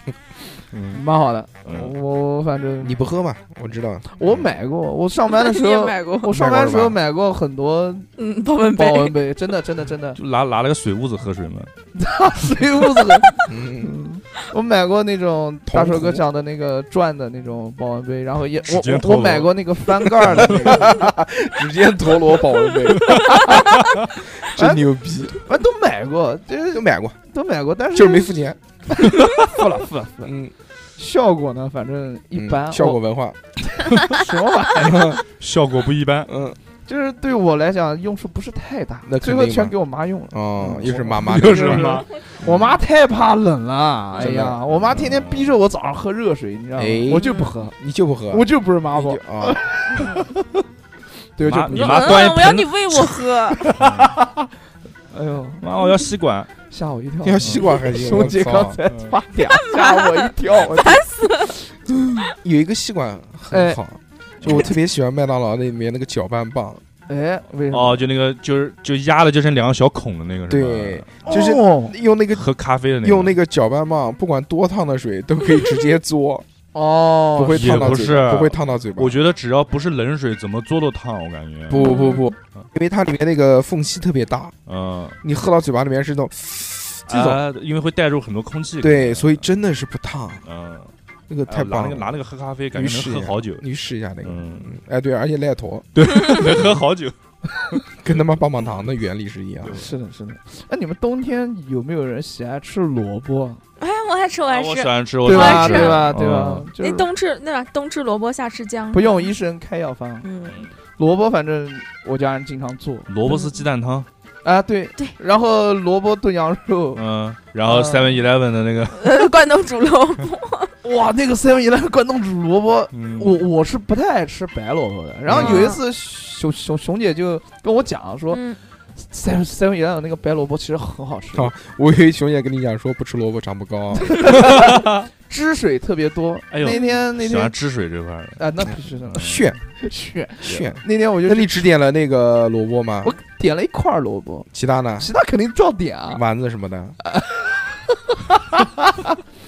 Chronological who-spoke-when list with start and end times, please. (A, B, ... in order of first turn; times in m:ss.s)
0:00.7-0:01.0 A
0:00.9-0:03.0 B
0:01.6-0:01.9 A
0:02.8-0:04.2 C
0:04.2-0:08.1 B
0:05.4-0:06.4 D
0:06.3-0:07.0 C
0:08.2-0:09.2 D
0:08.8-0:10.2 B
0:10.2-0:11.7 A
0:12.0-0:21.1 B
0:13.5-0:13.9 C
0:15.7-0:16.2 C
0:18.6-0:20.9 A
0:20.2-0:23.6 C
0:23.1-0:23.8 B
0:24.4-0:25.4 C
0:24.5-0:28.3 B
0:26.7-0:27.2 C
0:27.9-0:28.6 C
0:28.9-0:30.3 B
0:30.2-0:30.5 C
0:31.0-0:33.0 B
0:32.4-0:33.4 C
0:34.0-0:35.0 B
0:34.8-0:35.2 C
0:35.2-0:36.3 A
0:36.3-0:36.6 C
0:36.9-0:47.7 B
0:39.1-0:39.8 C
0:40.3-0:42.0 C
0:41.3-0:42.7 A
0:44.2-0:44.6 C
0:44.5-0:45.6 A
0:46.8-0:49.6 C
0:47.2-0:47.5 D
0:48.3-0:50.6 B
0:51.4-0:52.3 B
0:51.4-0:54.1 A
0:51.7-0:53.6 D
0:53.5-0:54.5 B
0:55.1-0:55.7 B
0:55.6-0:56.5 A
0:56.7-1:02.3 B
0:57.2-0:58.8 C
0:58.9-0:59.2 A
0:59.6-1:01.5 D
1:02.4-1:06.8 C
1:03.5-1:03.8 B
1:07.1-1:08.0 B
1:07.7-1:11.2 A
1:10.5-1:12.5 C
1:11.3-1:11.9 B
1:12.3-1:13.4 A
1:13.0-1:16.5 C
1:16.7-1:18.1 B
1:17.4-1:19.2 C
1:17.5-1:21.9 A
1:21.7-1:24.6 C
1:21.8-1:22.3 D
1:24.7-1:25.2 A
1:25.2-1:27.4 C
1:27.1-1:29.4 A
1:28.8-1:30.4 C
1:30.4-1:30.9 A
1:31.3-1:32.2 C
1:31.5-1:33.6 A
1:32.7-1:36.0 C
1:34.2-1:34.8 A
1:36.0-1:37.2 A
1:37.7-1:38.8 A
1:38.0-1:39.8 C
1:39.6-1:39.9 A
1:39.7-1:43.6 B
1:43.8-1:46.1 D
1:44.5-1:46.7 A
1:45.2-1:47.1 B
1:46.8-1:49.3 D
1:48.9-1:50.3 B
1:50.2-1:50.6 D
1:50.4-1:50.7 A
1:51.0-1:53.1 B
1:53.1-1:54.1 A
1:53.2-1:53.6 D
1:54.4-1:57.0 B
1:57.0-1:59.2 A
1:57.6-1:58.2 B
1:58.9-2:00.7 D
2:00.8-2:08.4 B
2:02.9-2:03.4 A
2:05.3-2:05.7 C
2:05.4-2:05.8 D
2:08.3-2:08.6 D
2:09.0-2:11.5 B
2:11.3-2:14.6 C
2:14.0-2:17.5 B
2:14.6-2:15.1 A
2:16.5-2:19.5 A
2:18.4-2:21.5 B
2:19.2-2:19.6 C
2:20.4-2:23.2 C
2:23.0-2:24.5 B
2:24.5-2:25.1 C
2:25.0-2:26.2 B
2:26.1-2:27.0 C
2:27.0-2:29.1 B